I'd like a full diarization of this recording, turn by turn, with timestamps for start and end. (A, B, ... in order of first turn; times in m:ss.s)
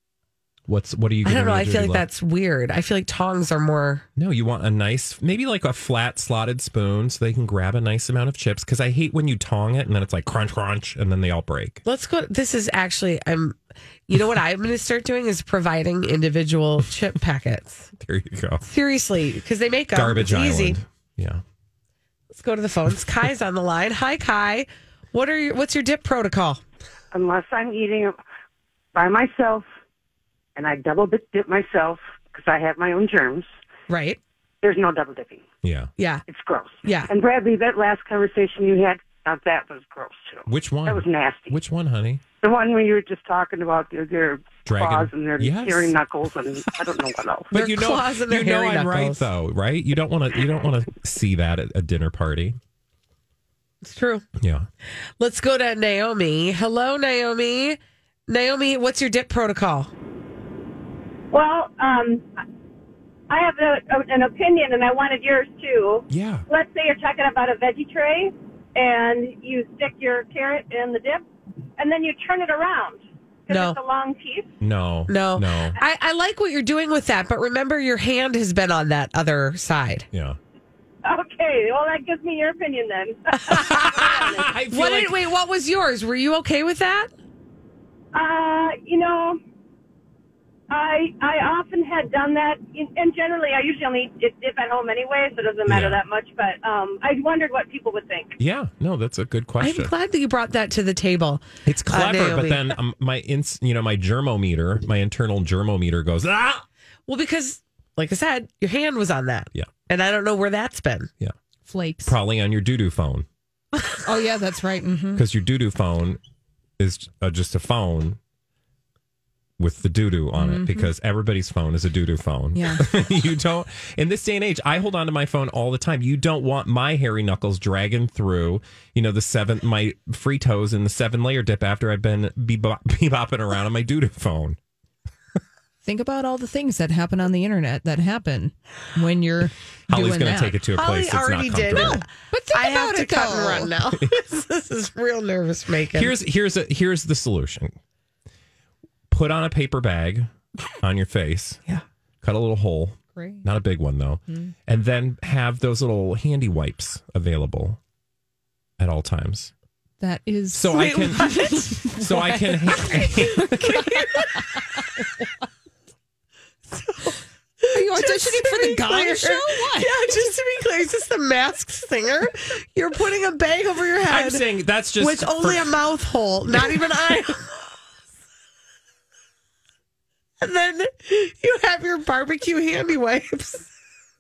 0:00.7-0:02.1 A
0:01.2-0:04.0 B
0:04.2-0:11.8 A
0:11.8-0:17.9 B
0:18.0-0:18.6 A
0:18.6-0:20.8 B
0:19.9-0:21.4 A
0:22.3-0:26.6 B
0:27.1-0:28.2 C
0:28.9-0:29.7 C
0:30.6-0:33.5 C
0:33.9-0:34.2 B
0:34.6-0:35.5 C
0:35.6-0:35.9 A
0:36.0-0:36.2 B
0:36.3-0:41.6 C
0:36.8-0:37.1 B
0:40.5-0:42.2 A
0:42.3-0:47.5 C
0:44.7-0:46.0 A
0:47.5-0:49.3 B
0:47.5-0:52.6 A
0:53.8-0:54.2 B
0:54.4-0:54.7 A
0:55.2-0:59.9 B
1:01.3-1:02.3 D
1:03.3-1:11.2 D
1:06.1-1:06.4 A
1:11.8-1:14.5 D
1:13.5-1:13.8 B
1:14.6-1:15.8 A
1:15.1-1:20.1 B
1:20.1-1:20.4 A
1:21.0-1:24.5 D
1:23.4-1:27.1 B
1:23.5-1:25.2 A
1:28.1-1:29.4 D
1:30.7-1:38.4 D
1:35.7-1:36.0 A
1:38.4-1:39.9 A
1:39.6-1:42.7 B
1:41.7-1:46.6 A
1:47.1-1:51.1 B
1:51.7-1:52.2 E
1:52.0-1:53.3 A
1:54.0-1:55.2 E
1:55.2-1:56.2 A
1:56.8-1:58.2 A
1:59.6-2:14.6 A
2:00.4-2:00.9 E
2:02.6-2:02.8 E
2:15.8-2:20.6 E
2:19.9-2:22.1 A
2:20.8-2:26.1 B
2:21.8-2:23.7 E
2:25.9-2:27.8 A
2:29.1-2:31.6 A
2:32.2-2:37.8 A
2:33.2-2:33.5 E
2:34.3-2:34.5 E
2:38.8-2:39.5 A
2:40.0-2:45.3 E
2:40.5-2:43.9 A
2:40.7-2:42.0 B
2:43.3-2:44.4 B
2:46.7-2:54.5 B
2:47.7-2:49.9 E
2:54.1-2:55.7 A
2:55.0-2:57.6 B
3:00.4-3:03.7 B